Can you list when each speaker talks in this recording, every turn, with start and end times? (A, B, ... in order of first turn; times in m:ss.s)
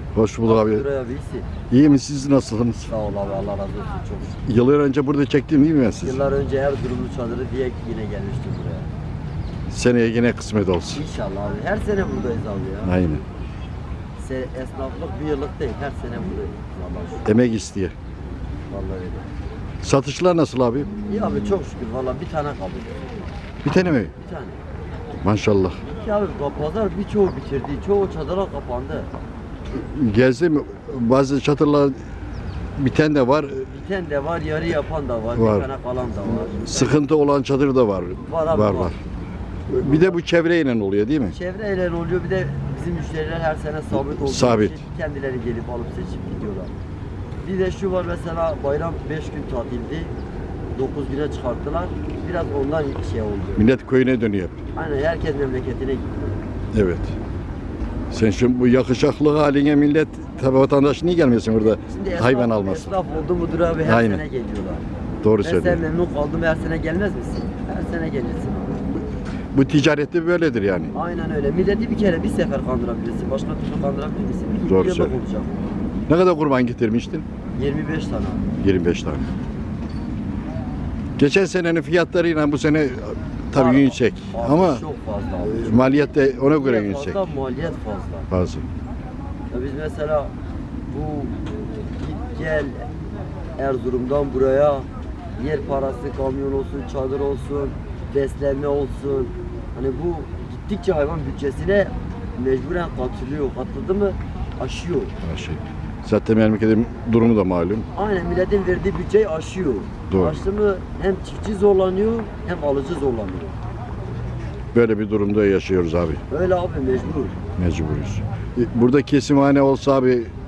0:00.2-0:00.8 A
0:00.4-0:01.5 B
0:01.7-0:02.9 A
0:02.9-0:04.4 B
0:04.5-0:06.2 A
0:06.0-0:08.9 B
0:09.7-0:11.0 A
0:10.9-0:12.9 B
0:12.8-0:13.2 A
0:14.2-0:17.2 B
0:17.2-0:17.9 A
0:18.7-0:19.3 B
0:19.8-0:20.9 A
0:21.1-0:23.1 B
0:23.6-0:24.1 A
0:24.2-0:24.6 B
0:25.2-0:25.8 A
0:25.8-0:29.1 B
0:29.7-0:32.0 A
0:32.8-0:33.7 A
0:33.7-0:37.0 B
0:35.4-0:35.7 A
0:36.5-0:39.0 A
0:38.2-0:39.0 B
0:39.7-0:41.4 A
0:39.7-0:40.2 B
0:41.3-0:46.7 B
0:43.9-0:44.8 A
0:47.4-0:50.1 B
0:50.8-0:53.7 B
0:53.6-0:54.6 A
0:54.8-0:56.4 B
0:56.7-0:57.1 A
0:58.1-1:02.9 A
1:01.7-1:04.8 B
1:03.8-1:04.2 A
1:05.2-1:05.8 A
1:05.4-1:08.8 B
1:09.5-1:10.9 A
1:10.9-1:15.8 B
1:14.6-1:15.2 A
1:16.1-1:17.3 A
1:17.6-1:18.5 B
1:18.6-1:19.3 A
1:21.2-1:24.8 A
1:23.5-1:26.0 B
1:25.4-1:27.3 A
1:26.5-1:28.3 B
1:28.3-1:28.7 A
1:29.5-1:30.3 B
1:30.9-1:31.4 B
1:32.0-1:32.9 B
1:33.6-1:45.2 B
1:45.2-1:47.9 A
1:48.0-1:53.5 B
1:50.1-1:50.4 A
1:54.7-1:56.2 A
1:56.3-1:57.4 B
1:57.6-2:00.3 A